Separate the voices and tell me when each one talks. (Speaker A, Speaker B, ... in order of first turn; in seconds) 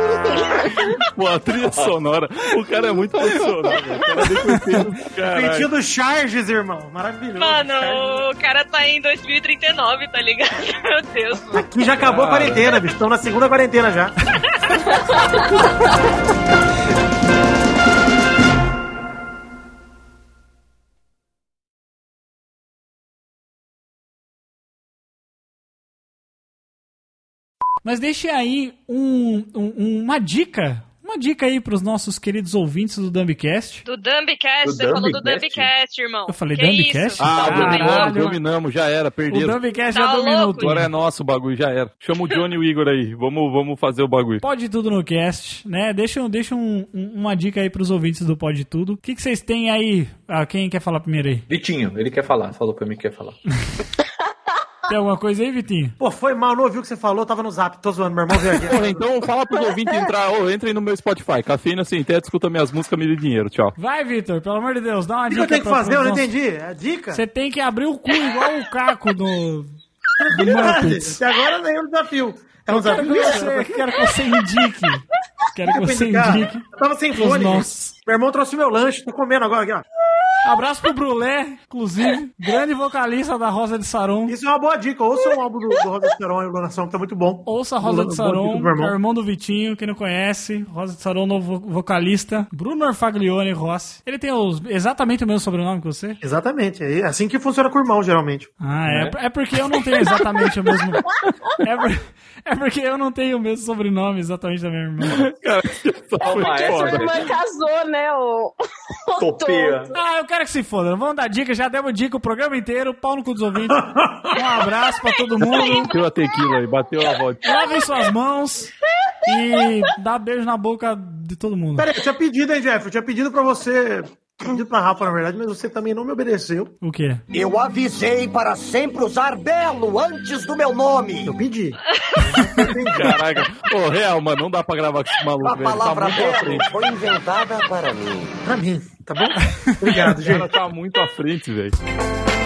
Speaker A: 1.0-5.7, 12.0-12.7, 37.2-39.6, 40.6-44.4, 58.6-63.7, 98.9-99.2, 105.0-107.2, 115.4-117.6, 132.9-136.7, 139.9-141.8
Speaker B: 4.3-4.8, 27.8-33.8, 36.3-38.4, 39.3-40.9, 44.4-51.5, 54.9-56.0, 63.8-66.3, 67.1-69.7, 70.3-71.2, 72.7-77.9, 80.4-84.4, 87.5-96.2, 98.6-101.1, 101.6-105.3, 109.9-116.0, 117.4-118.7, 119.3-121.9, 126.8-127.2, 139.7-140.1
Speaker C: 5.2-8.2, 11.5-14.1, 56.0-59.0, 65.3-67.2, 70.2-73.8, 75.7-79.8, 84.3-89.0, 96.2-98.5, 113.7-114.5, 121.8-126.7, 131.2-133.5, 138.4-140.5
Speaker D: 7.4-11.7, 33.9-38.2, 39.9-40.8, 131.9-132.3
Speaker E: 34.6-35.7, 37.4-37.8, 51.5-53.4, 106.2-107.3, 109.2-109.9
Speaker F: 106.2-109.9
Speaker G: 127.3-131.4, 135.4-138.4